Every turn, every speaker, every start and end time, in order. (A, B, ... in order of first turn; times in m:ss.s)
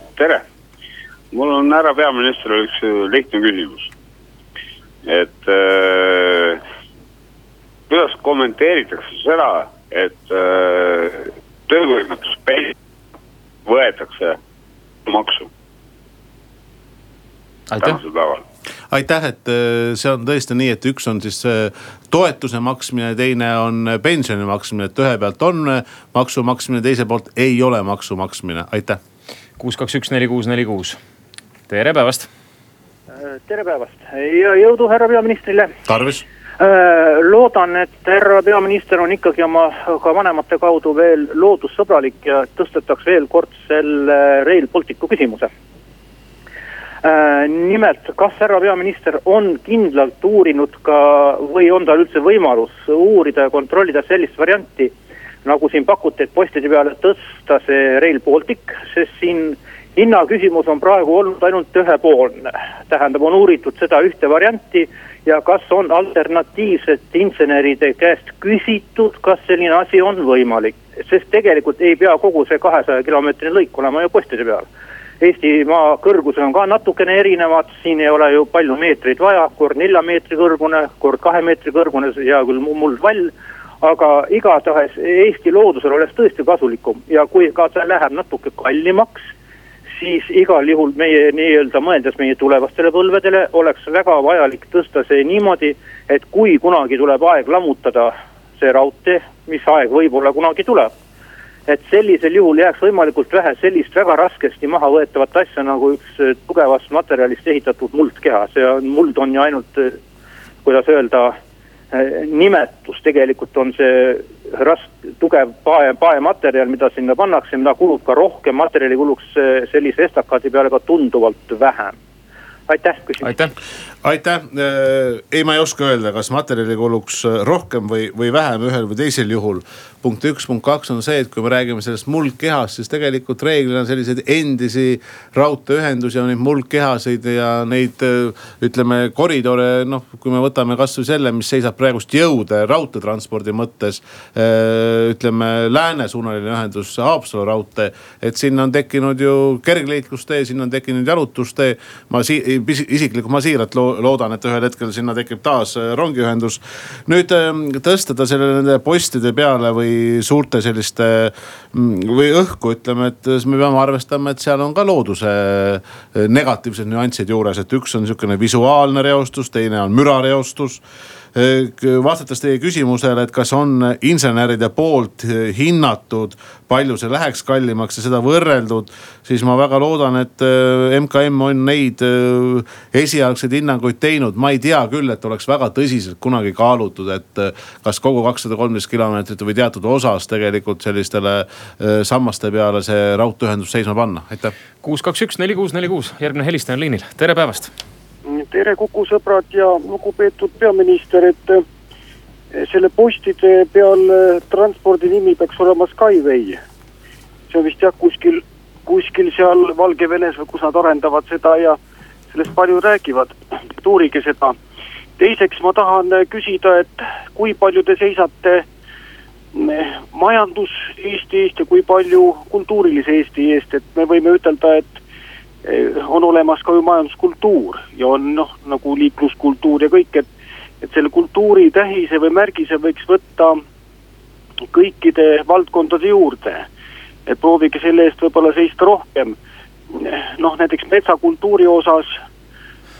0:00.2-0:00.4 A
0:01.3-0:03.9 A
0:05.0-0:06.6 A
0:07.9-0:12.7 A
0:13.6-0:14.4 A
0:15.1-0:15.5 A
0:17.7-0:18.0 B
0:17.8-0:18.4 A
0:18.9-0:29.0 C
0:29.6-0:31.0 B
0:31.7-0:32.3 B
0:33.2-0:35.7 D
0:35.8-0:36.2 C
0:36.6-0:45.5 D
0:47.0-0:54.9 D
0:55.4-1:14.7 D
1:15.2-1:29.3 D
1:29.9-1:40.9 D
1:41.7-1:50.0 D
1:50.6-1:51.4 D
1:51.9-2:02.0 D
2:02.7-2:03.3 D
2:03.2-2:03.5 B
2:04.0-2:50.8 C
2:51.3-3:14.5 C
3:14.8-3:17.7 B
3:18.2-3:21.6 E
3:22.5-3:26.6 E
3:27.5-3:31.8 E
3:32.3-3:34.6 E
3:35.2-3:38.6 E
3:39.5-3:45.0 E
3:45.6-3:50.3 E
3:50.8-3:53.6 E
3:54.7-3:56.7 E
3:57.3-3:59.4 E
3:59.9-4:02.2 E